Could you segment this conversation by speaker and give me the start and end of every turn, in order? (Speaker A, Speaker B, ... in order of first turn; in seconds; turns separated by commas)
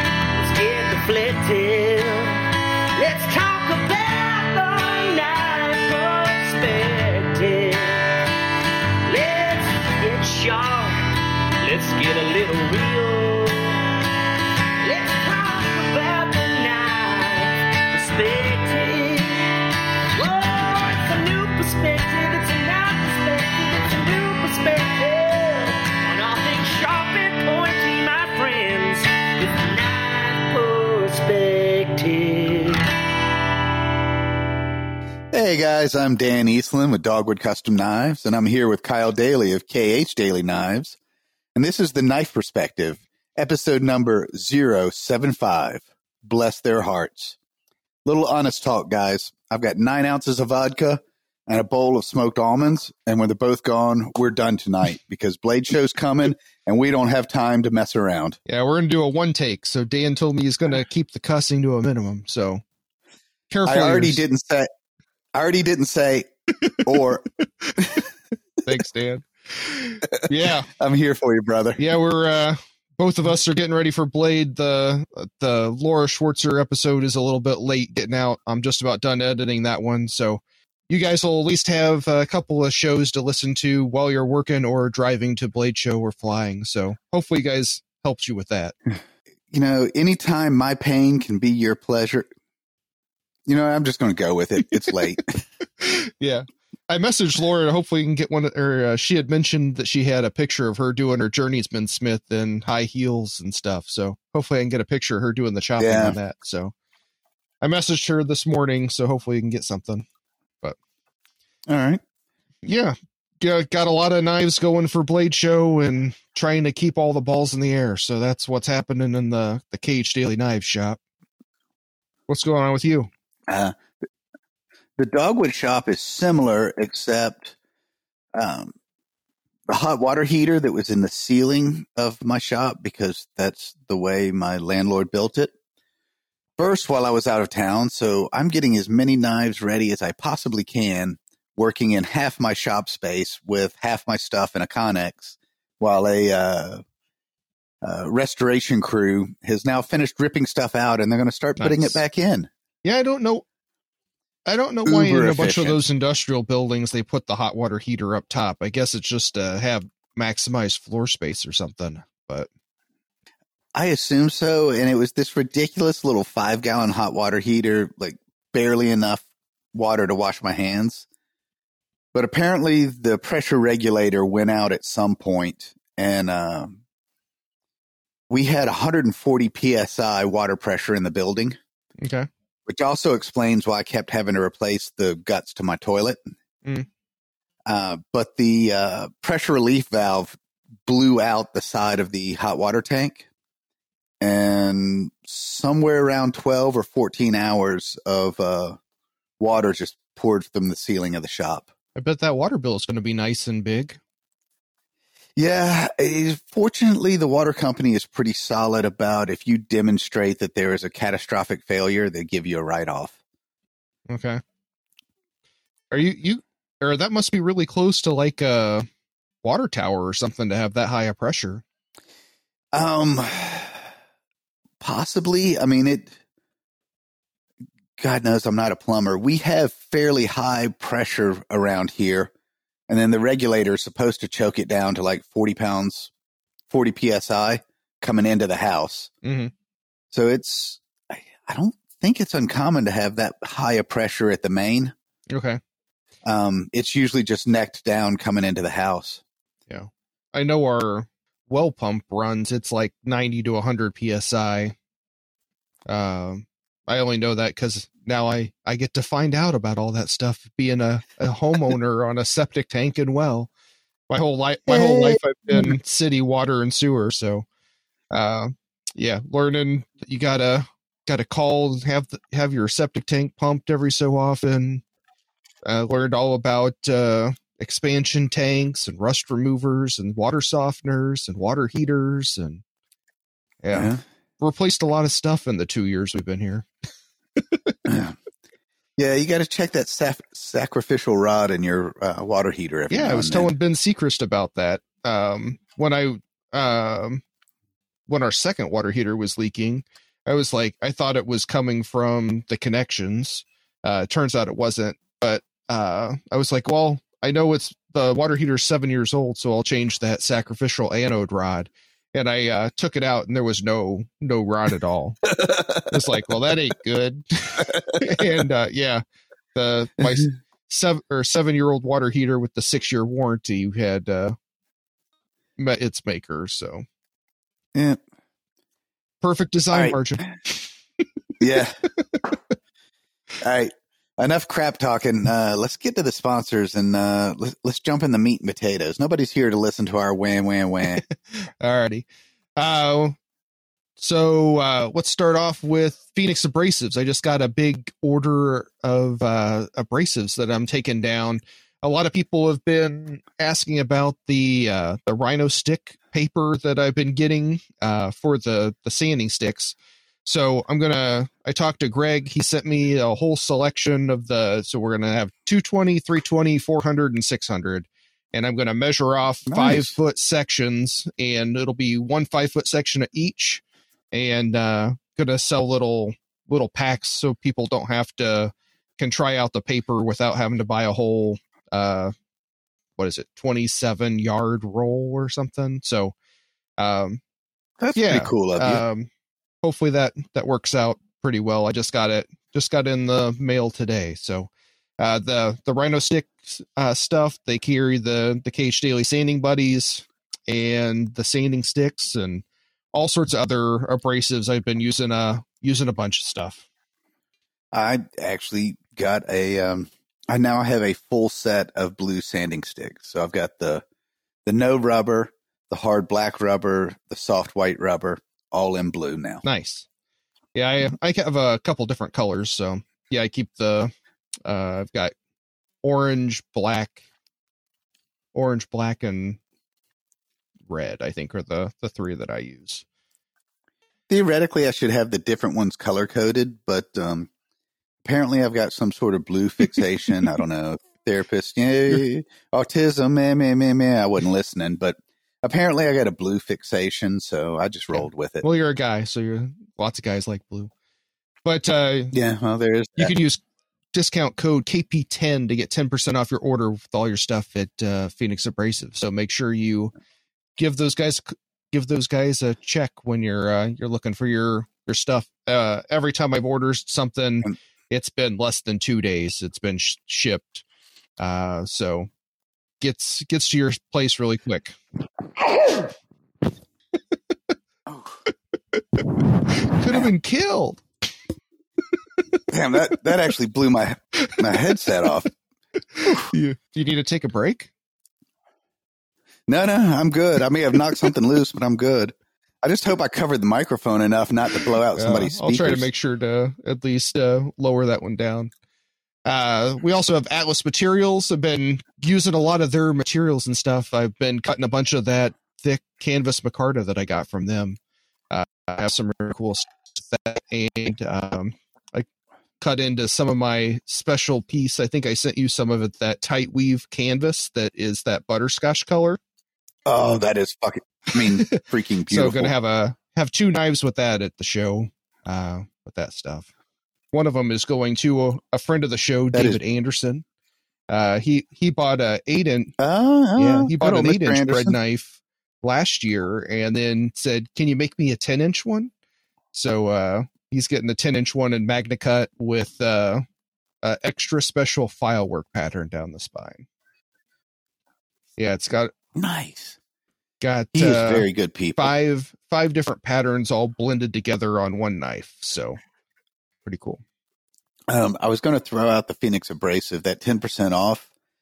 Speaker A: 0.3-2.4, Speaker A: 3.0-8.1, Speaker A: 9.0-11.0, Speaker A: 11.6-13.8, Speaker A: 14.8-19.6, Speaker A: 20.1-32.9, Speaker B: 35.3-41.0, Speaker B: 41.5-47.4, Speaker B: 48.0-58.4, Speaker C: 58.5-62.6, Speaker C: 63.5-64.2, Speaker B: 63.6-64.7, Speaker B: 65.3-67.3, Speaker C: 68.6-70.7, Speaker B: 70.1-71.8, Speaker C: 71.8-88.7, Speaker B: 89.5-92.3, Speaker B: 93.5-95.4, Speaker C: 95.8-106.7, Speaker B: 105.8-106.2, Speaker C: 107.6-110.0, Speaker B: 111.7-112.0, Speaker C: 112.6-121.0, Speaker C: 122.3-123.1, Speaker B: 123.5-123.7, Speaker B: 125.0-127.5, Speaker B: 128.3-128.7, Speaker B: 129.7-135.5, Speaker B: 136.6-146.8, Speaker B: 147.8-152.5, Speaker C: 151.6-152.0, Speaker C: 152.8-153.4, Speaker C: 154.4-162.5, Speaker B: 154.8-155.8, Speaker B: 163.7-171.1, Speaker B: 172.1-176.8, Speaker B: 178.3-181.6, Speaker C: 182.0-182.3, Speaker B: 182.7-186.2, Speaker B: 187.7-193.3, Speaker B: 194.2-198.8, Speaker B: 199.4-201.7, Speaker C: 201.9-204.0, Speaker B: 205.3-213.2, Speaker C: 214.1-214.4, Speaker C: 215.9-218.9, Speaker C: 219.4-221.6, Speaker B: 222.7-223.9, Speaker B: 224.8-226.2, Speaker B: 228.0-232.3, Speaker B: 232.9-236.1, Speaker B: 236.7-239.1, Speaker C: 239.2-239.5, Speaker B: 240.1-244.9, Speaker C: 245.3-245.6, Speaker B: 246.2-249.2, Speaker C: 249.7-254.8, Speaker C: 255.9-263.5, Speaker C: 264.1-267.4, Speaker B: 264.7-265.7, Speaker C: 268.1-274.8, Speaker C: 275.6-282.6, Speaker C: 283.6-286.7, Speaker B: 283.7-284.0, Speaker C: 287.4-287.8, Speaker B: 287.8-288.2, Speaker B: 289.0-293.5, Speaker C: 292.9-297.2, Speaker C: 298.1-319.0, Speaker B: 315.4-315.9, Speaker C: 319.5-324.4, Speaker B: 320.0-320.2, Speaker C: 325.6-326.8, Speaker B: 327.7-328.0, Speaker C: 329.2-330.5, Speaker B: 329.7-330.3, Speaker B: 331.4-331.8, Speaker B: 333.4-341.0, Speaker C: 341.0-342.1, Speaker C: 342.6-343.1, Speaker C: 344.0-382.1, Speaker B: 369.5-369.9, Speaker C: 383.0-386.1, Speaker C: 386.8-387.2, Speaker B: 387.8-388.8, Speaker C: 387.9-389.1, Speaker C: 389.6-406.6, Speaker B: 407.7-413.8, Speaker B: 414.4-419.4, Speaker C: 419.4-419.9, Speaker C: 420.5-423.9, Speaker C: 424.4-425.1, Speaker C: 425.8-427.0, Speaker C: 428.3-429.4, Speaker C: 430.7-432.8, Speaker B: 434.1-437.3, Speaker B: 438.0-448.4, Speaker C: 447.9-450.7, Speaker C: 451.4-452.1, Speaker B: 452.1-453.1, Speaker C: 453.0-453.4, Speaker C: 453.9-459.9, Speaker C: 460.6-470.6, Speaker C: 471.2-472.1, Speaker C: 472.8-474.8, Speaker B: 477.9-478.2, Speaker C: 478.7-480.8, Speaker B: 479.8-480.1, Speaker B: 482.5-485.2, Speaker C: 484.2-485.0, Speaker C: 485.9-487.7, Speaker B: 489.5-495.9, Speaker C: 494.9-498.5, Speaker C: 499.2-507.8, Speaker C: 508.3-512.1, Speaker C: 512.6-519.2, Speaker B: 519.9-522.5, Speaker C: 521.5-526.5, Speaker C: 527.1-530.2, Speaker B: 529.3-529.6, Speaker C: 530.9-532.7, Speaker B: 532.8-534.8, Speaker C: 533.4-538.9, Speaker C: 539.5-543.2, Speaker C: 543.8-546.6, Speaker C: 548.4-548.9, Speaker B: 549.1-549.8, Speaker C: 550.4-555.8, Speaker B: 550.7-551.9, Speaker C: 556.6-557.0, Speaker B: 557.9-561.1